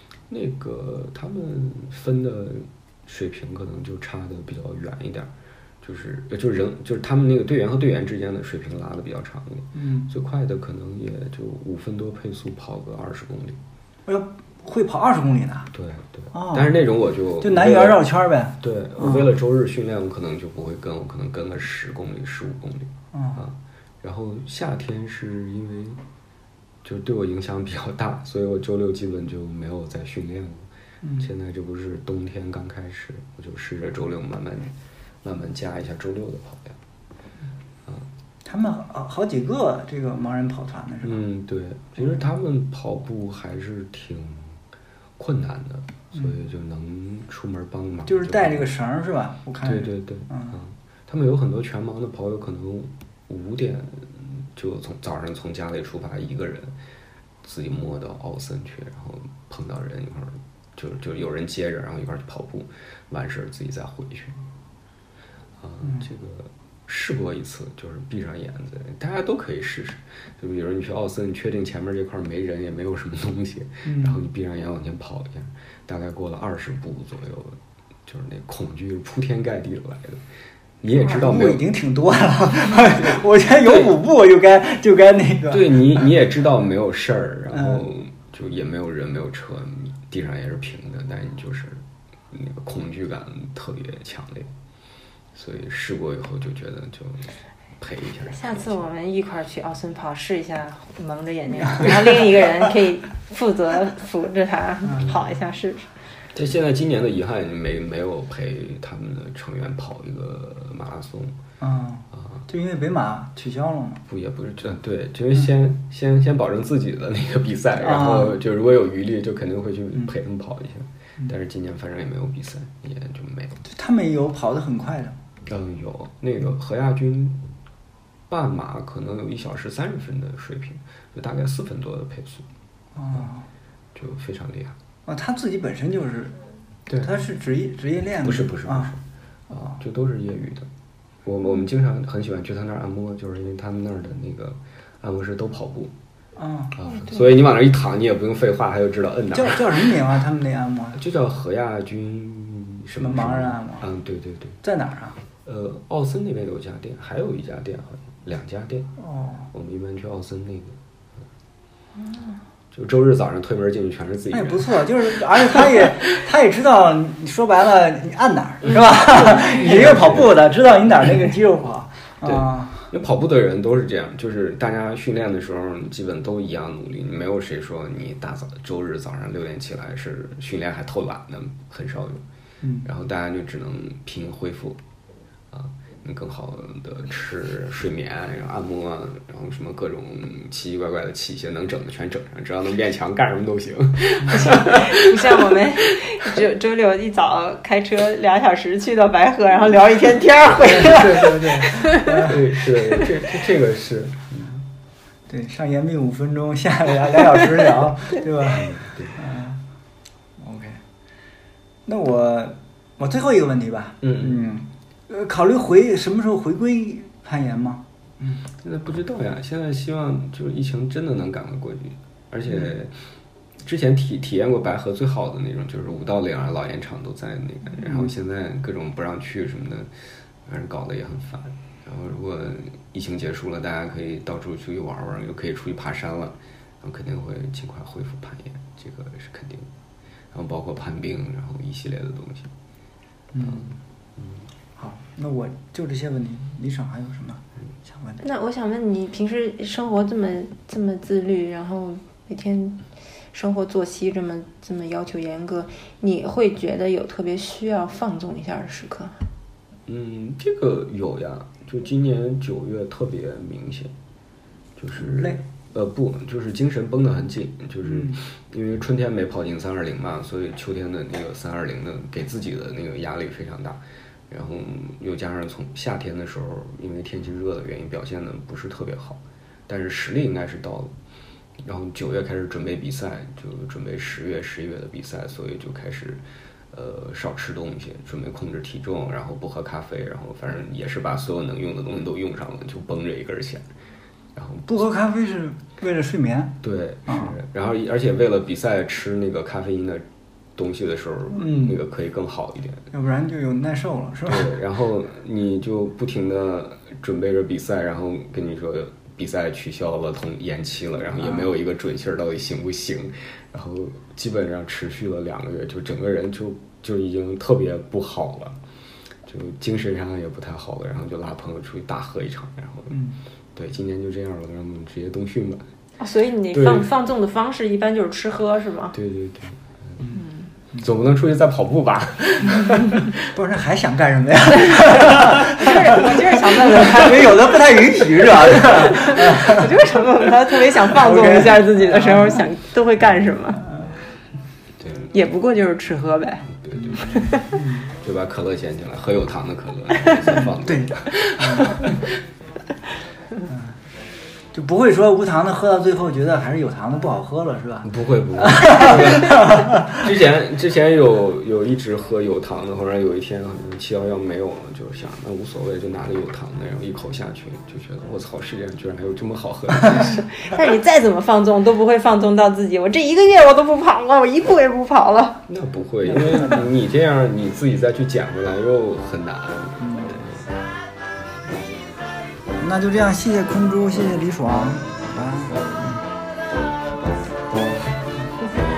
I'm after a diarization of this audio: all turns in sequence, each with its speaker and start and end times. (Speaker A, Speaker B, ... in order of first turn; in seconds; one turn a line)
Speaker A: 0.3-5.3
Speaker A: 5.8-13.6
Speaker B: 9.7-10.1
Speaker B: 14.1-15.7
Speaker A: 15.7-18.0
Speaker B: 16.3-16.7
Speaker B: 17.4-19.3
Speaker A: 18.6-26.0
Speaker B: 23.1-23.4
Speaker A: 26.8-30.7
Speaker B: 31.0-31.3
Speaker A: 31.2-36.8
Speaker B: 38.4-41.2
Speaker A: 41.0-44.6
Speaker B: 42.0-42.2
Speaker A: 45.2-48.7
Speaker B: 48.0-50.6
Speaker A: 49.6-56.8
Speaker A: 57.4-64.4
Speaker A: 65.6-80.2
Speaker B: 65.8-66.1
Speaker B: 73.8-74.2
Speaker A: 80.8-81.6
Speaker B: 80.9-86.1
Speaker A: 83.6-83.9
Speaker A: 85.5-94.5
Speaker B: 87.5-87.8
Speaker A: 95.3-98.8
Speaker C: 98.3-105.9
Speaker A: 106.3-111.4
Speaker B: 111.6-114.0
Speaker A: 112.2-112.4
Speaker A: 114.1-123.6
Speaker B: 117.8-118.4
Speaker B: 123.6-125.2
Speaker A: 125.5-127.4
Speaker A: 128.3-132.4
Speaker B: 132.9-133.5
Speaker A: 133.9-134.8
Speaker B: 135.1-138.9
Speaker A: 138.2-140.7
Speaker A: 141.2-145.9
Speaker B: 146.3-146.7
Speaker A: 146.7-149.9
Speaker B: 149.3-151.0
Speaker A: 150.9-154.6
Speaker B: 153.0-153.8
Speaker B: 154.6-155.2
Speaker A: 155.4-158.9
Speaker B: 159.0-159.5
Speaker A: 159.5-160.8
Speaker A: 162.7-164.8
Speaker B: 164.3-172.9
Speaker A: 165.3-165.9
Speaker A: 169.3-170.4
Speaker A: 172.2-182.2
Speaker B: 182.6-182.9
Speaker A: 182.8-184.8
Speaker A: 185.5-196.1
Speaker B: 194.2-194.5
Speaker C: 194.4-202.3
Speaker B: 200.6-203.0
Speaker A: 202.1-204.6
Speaker B: 205.3-209.6
Speaker A: 208.4-209.2
Speaker B: 210.4-210.8
Speaker B: 211.8-218.4
Speaker A: 214.0-214.4
Speaker A: 218.5-223.0
Speaker A: 223.6-229.9
Speaker B: 227.8-228.1
Speaker A: 230.4-239.7
Speaker A: 240.3-242.5
Speaker B: 243.3-243.8
Speaker A: 243.4-244.4
Speaker B: 244.8-248.2
Speaker C: 248.2-259.2
Speaker A: 259.9-263.9
Speaker A: 264.8-280.9
Speaker B: 264.9-265.4
Speaker B: 267.8-268.2
Speaker A: 281.6-293.7
Speaker A: 294.3-294.8
Speaker B: 294.6-297.4
Speaker A: 296.6-300.0
Speaker A: 300.6-302.9
Speaker B: 301.3-301.8
Speaker B: 302.9-304.5
Speaker A: 304.2-318.6
Speaker B: 311.2-311.5
Speaker A: 319.2-323.0
Speaker B: 322.9-323.2
Speaker A: 323.5-325.6
Speaker C: 326.0-328.9
Speaker A: 326.5-326.9
Speaker A: 328.9-330.1
Speaker B: 330.0-330.9
Speaker C: 330.1-330.5
Speaker A: 330.8-333.3
Speaker B: 332.5-339.7
Speaker A: 334.9-335.3
Speaker C: 335.3-337.8
Speaker C: 338.5-343.6
Speaker B: 340.9-342.4
Speaker B: 343.6-343.9
Speaker A: 344.8-345.1
Speaker C: 345.1-347.5
Speaker A: 346.5-347.4
Speaker B: 346.7-347.9
Speaker A: 348.0-352.2
Speaker B: 350.3-351.9
Speaker B: 353.5-353.8
Speaker B: 354.5-360.1
Speaker A: 357.8-370.3
Speaker C: 369.9-375.4
Speaker A: 375.5-380.7
Speaker B: 376.1-376.7
Speaker B: 379.8-380.2
Speaker B: 382.6-386.1